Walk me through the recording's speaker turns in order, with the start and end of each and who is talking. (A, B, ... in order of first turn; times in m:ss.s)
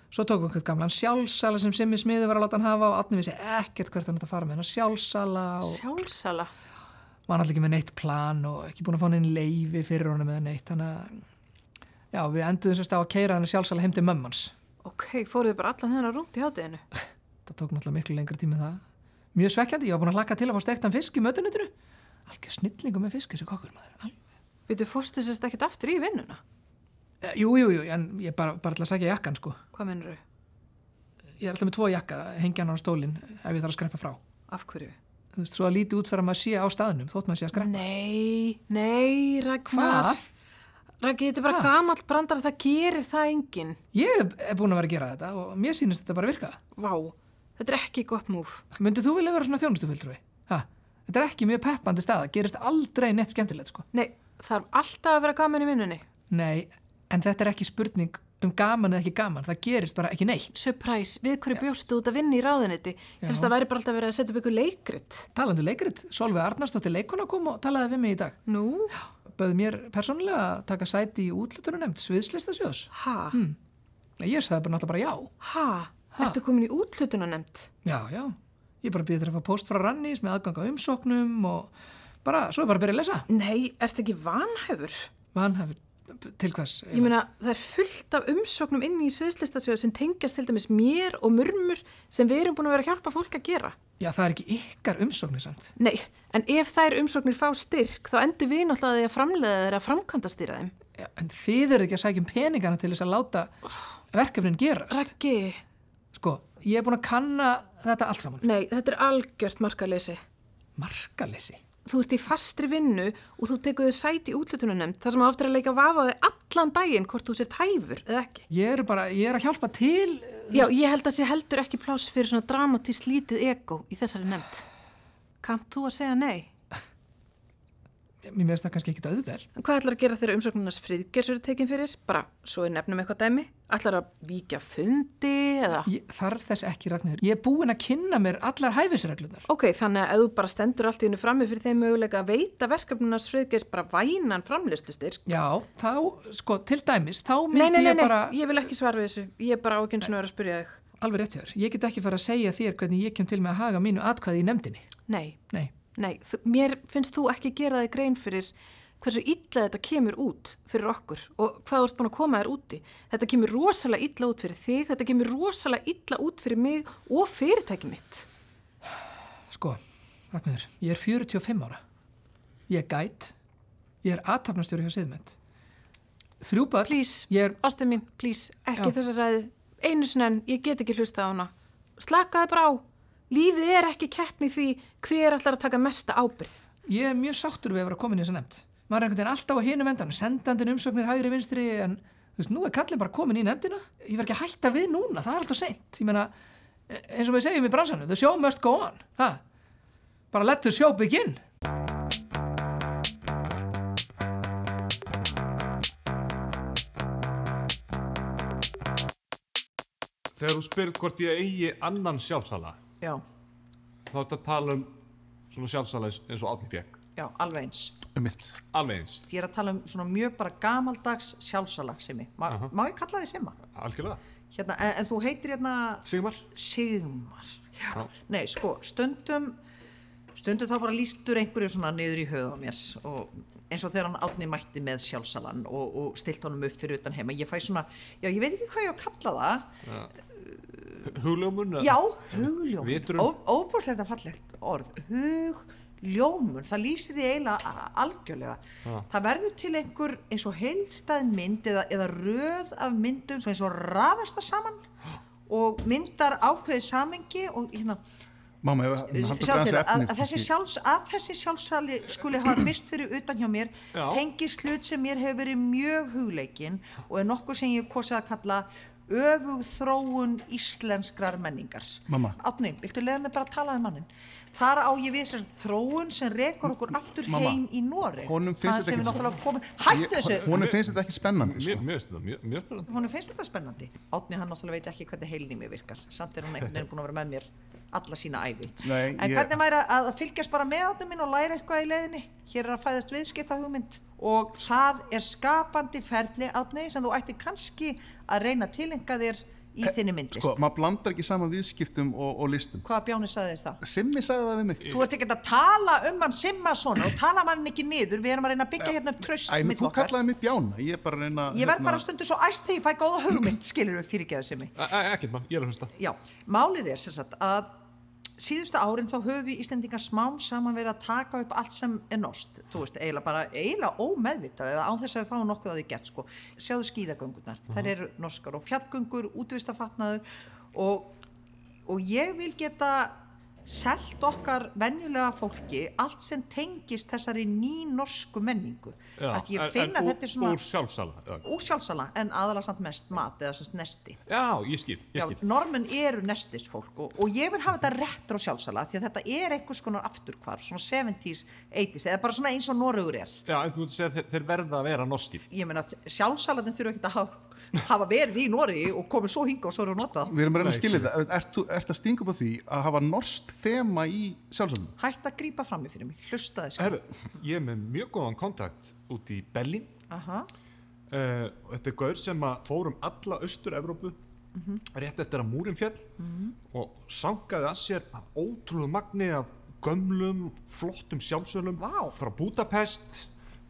0:00.1-0:05.8 A
0:05.6-0:06.5 B
0:07.3-0:11.2 A
0:12.1-0:14.5 A
0:14.8-0:16.8 B
0:17.4-0:18.8 A
0:19.3-0:21.7 A
0:22.3-0:24.2 A
0:24.7-0:26.4 B
0:27.2-0:29.6 A
0:29.7-0:30.2 B
0:31.4-0:34.2 A
0:34.5-0:35.0 B
0:35.4-0:37.8 A
0:37.5-0:40.3 B
0:39.7-0:40.2 A
0:41.0-0:43.8 B
0:43.9-0:46.6 A
0:46.8-0:48.6 B
0:48.7-0:53.8 A
0:53.9-0:56.0 B
0:56.3-1:00.5 A
1:00.5-1:05.2 B
1:03.2-1:03.5 A
1:05.3-1:08.4 A
1:08.5-1:09.0 B
1:09.2-1:13.6 A
1:12.9-1:13.4 B
1:14.2-1:15.3 A
1:15.4-1:17.7 B
1:17.8-1:21.7 A
1:22.2-1:23.3 A
1:23.3-1:25.1 B
1:25.3-1:27.1 A
1:26.9-1:33.8 B
1:34.0-1:35.7 A
1:35.8-1:40.7 B
1:41.0-1:43.5 A
1:44.1-1:45.1 A
1:44.9-1:45.6 B
1:46.1-1:48.4 A
1:48.4-1:50.2 B
1:50.8-1:51.6 A
1:51.8-1:58.4 B
1:58.5-2:00.7 A
2:00.5-2:04.6 B
2:05.4-2:06.5 B
2:08.2-2:09.5 A
2:09.6-2:15.9 B
2:15.8-2:19.4 A
2:19.5-2:25.2 B
2:25.2-2:28.4 A
2:27.5-2:30.8 B
2:31.0-2:34.9 A
2:35.1-2:35.4 B
2:35.9-2:48.2 B
2:49.5-2:49.8 A
2:50.3-2:51.8 A
2:52.7-2:53.3 A
2:54.0-2:55.4 A
2:56.4-2:57.6 A
2:56.8-3:06.6 B
3:06.8-3:16.3 A
3:16.9-3:19.4 A
3:20.3-3:21.4 A
3:30.4-3:32.8 C
3:34.1-3:34.9 C
3:35.5-3:37.0 C
3:37.2-3:37.9 D
3:38.2-3:38.6 E
3:38.7-3:39.2 C
3:39.3-3:43.6 D
3:43.7-3:44.2 C
3:44.5-3:49.6 D
3:46.0-3:46.4 C
3:50.4-3:59.7 D
3:59.8-4:00.1 C
4:00.4-4:01.0 D
4:01.0-4:03.3 C
4:01.8-4:14.8 D
4:15.5-4:18.0 D
4:18.6-4:20.5 E
4:19.1-4:40.6 D
4:23.9-4:24.2 C
4:32.1-4:32.4 E
4:37.3-4:37.6 E
4:38.2-4:39.2 E
4:39.9-4:41.8 E
4:40.4-4:42.9 C
4:42.9-5:00.6 D
4:48.8-4:49.5 E
5:00.3-5:02.8 E
5:02.8-5:03.8 D
5:03.8-5:04.9 E
5:04.8-5:10.1 D
5:09.4-5:12.0 E
5:11.5-5:14.7 D
5:14.7-5:15.9 C
5:16.0-5:17.7 D
5:18.4-5:31.2 D
5:31.8-5:40.6 D
5:39.2-5:41.4 C
5:41.4-5:44.2 D
5:44.3-5:45.4 C
5:45.1-5:53.4 D
5:53.4-5:55.4 C
5:55.5-6:00.4 D
6:00.2-6:04.9 E
6:00.6-6:01.1 C
6:05.0-6:07.0 D
6:06.8-6:09.9 C
6:10.1-6:10.5 D
6:11.1-6:14.2 C
6:14.5-6:14.8 D
6:14.9-6:16.1 C
6:16.2-6:16.6 D
6:16.7-6:23.3 C
6:21.8-6:22.2 D